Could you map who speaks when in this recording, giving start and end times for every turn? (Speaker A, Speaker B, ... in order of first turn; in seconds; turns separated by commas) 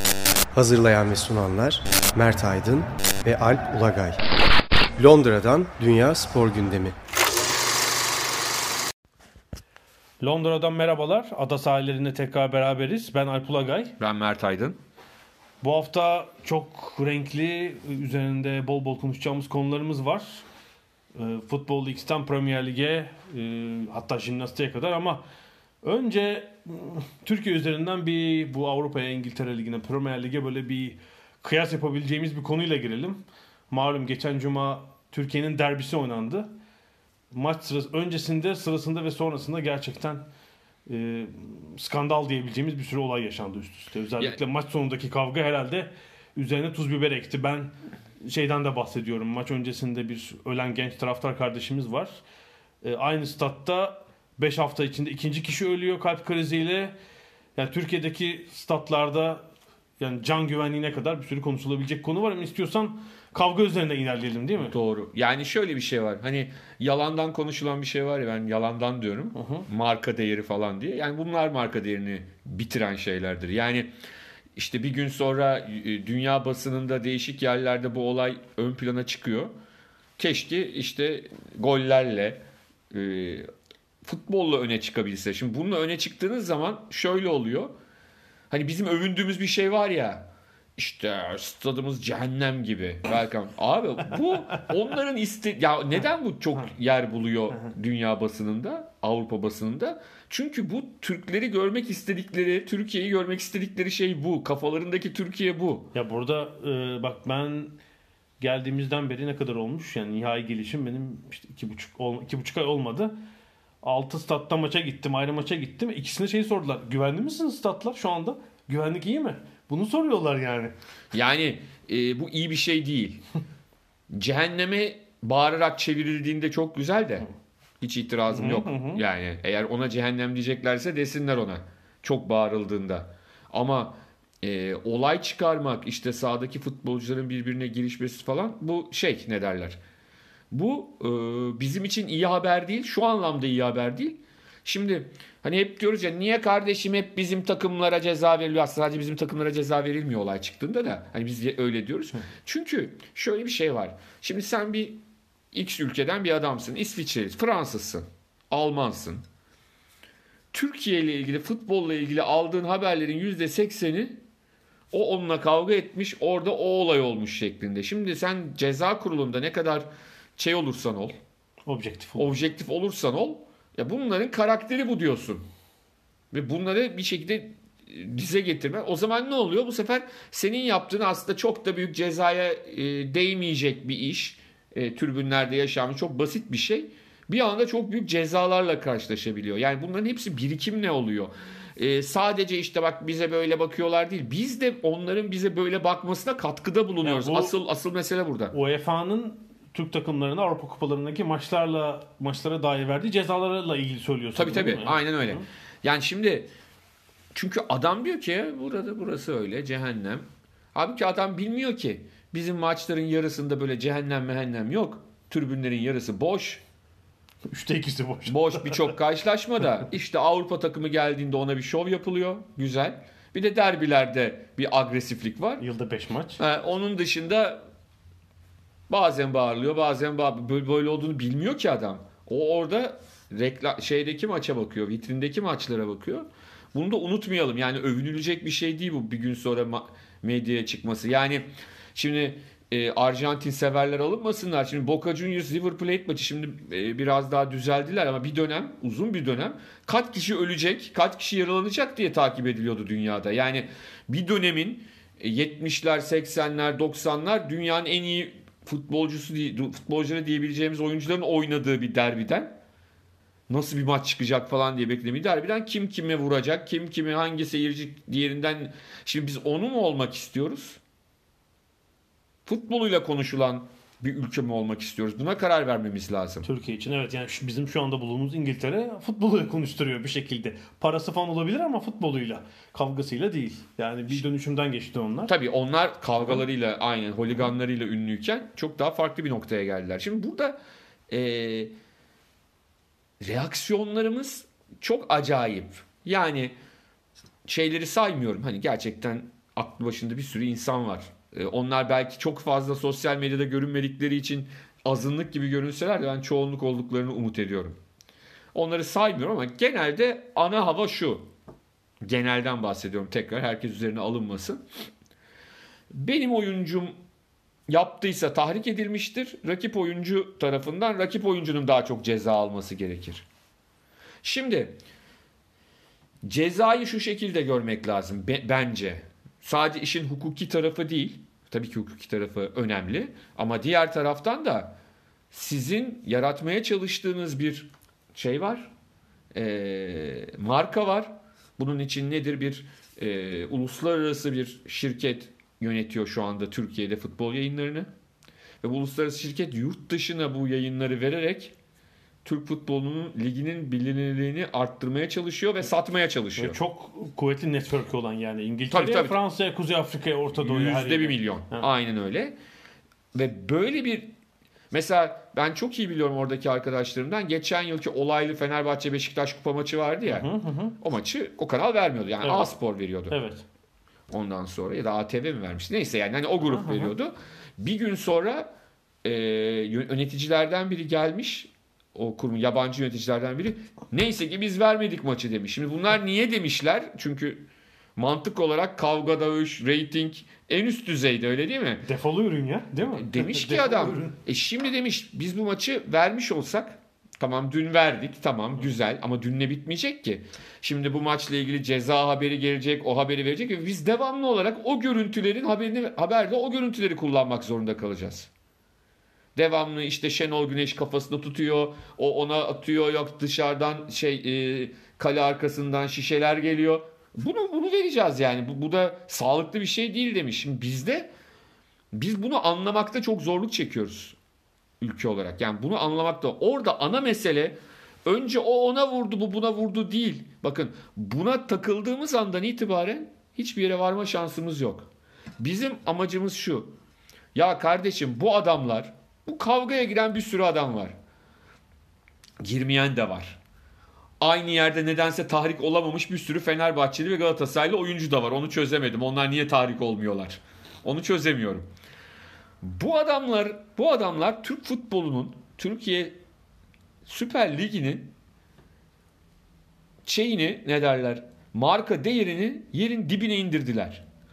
Speaker A: 0.5-4.2, Speaker A: 5.0-7.0, Speaker B: 10.2-13.9, Speaker C: 14.0-14.8, Speaker B: 15.6-20.4, Speaker B: 21.1-25.2, Speaker B: 25.8-36.5, Speaker B: 37.3-40.2, Speaker B: 40.9-52.2, Speaker B: 52.8-56.9, Speaker B: 57.5-59.4, Speaker B: 60.0-64.7, Speaker C: 64.6-73.9, Speaker B: 69.3-69.7, Speaker C: 74.5-79.5, Speaker C: 80.2-83.5, Speaker C: 84.0-87.7, Speaker C: 88.5-105.9, Speaker B: 105.9-107.8, Speaker B: 108.4-113.2, Speaker B: 113.8-120.7, Speaker C: 121.1-123.2, Speaker C: 124.1-127.3, Speaker C: 127.8-139.8, Speaker B: 128.3-129.0, Speaker C: 140.5-155.0, Speaker C: 155.5-159.2, Speaker C: 160.5-164.2, Speaker C: 164.9-169.8, Speaker C: 170.4-171.2, Speaker B: 171.7-172.3, Speaker C: 172.2-175.4, Speaker C: 176.3-198.5, Speaker B: 197.0-197.5, Speaker B: 198.5-205.4, Speaker C: 204.3-206.5, Speaker C: 207.3-216.6, Speaker B: 217.5-219.0, Speaker C: 218.3-225.6, Speaker B: 225.6-226.4, Speaker C: 226.4-227.6, Speaker C: 228.9-262.5, Speaker C: 263.5-270.8, Speaker C: 272.4-276.4, Speaker B: 276.4-285.3, Speaker C: 285.3-290.6, Speaker C: 291.1-291.7, Speaker C: 293.2-296.5, Speaker C: 297.4-307.8, Speaker C: 308.5-311.3, Speaker C: 312.0-314.6, Speaker C: 315.9-316.9, Speaker C: 317.7-323.2, Speaker C: 324.2-324.8, Speaker C: 326.2-334.7, Speaker C: 335.3-338.7, Speaker C: 339.3-347.9, Speaker C: 348.6-351.5, Speaker C: 352.2-356.6, Speaker B: 356.4-361.7, Speaker C: 358.7-359.2, Speaker C: 360.4-362.4, Speaker C: 363.1-364.1, Speaker C: 364.7-373.2, Speaker B: 370.1-370.8, Speaker B: 372.2-372.5, Speaker B: 373.1-373.4, Speaker C: 374.1-378.5, Speaker B: 376.4-376.9, Speaker C: 379.0-387.4, Speaker C: 387.9-391.8, Speaker B: 391.8-394.2, Speaker C: 392.9-408.3, Speaker C: 409.4-421.1, Speaker C: 421.9-424.2, Speaker C: 424.8-436.7, Speaker C: 437.3-440.9, Speaker C: 442.4-443.4, Speaker C: 444.2-451.7, Speaker C: 452.6-456.2, Speaker C: 457.1-458.1, Speaker C: 460.0-464.0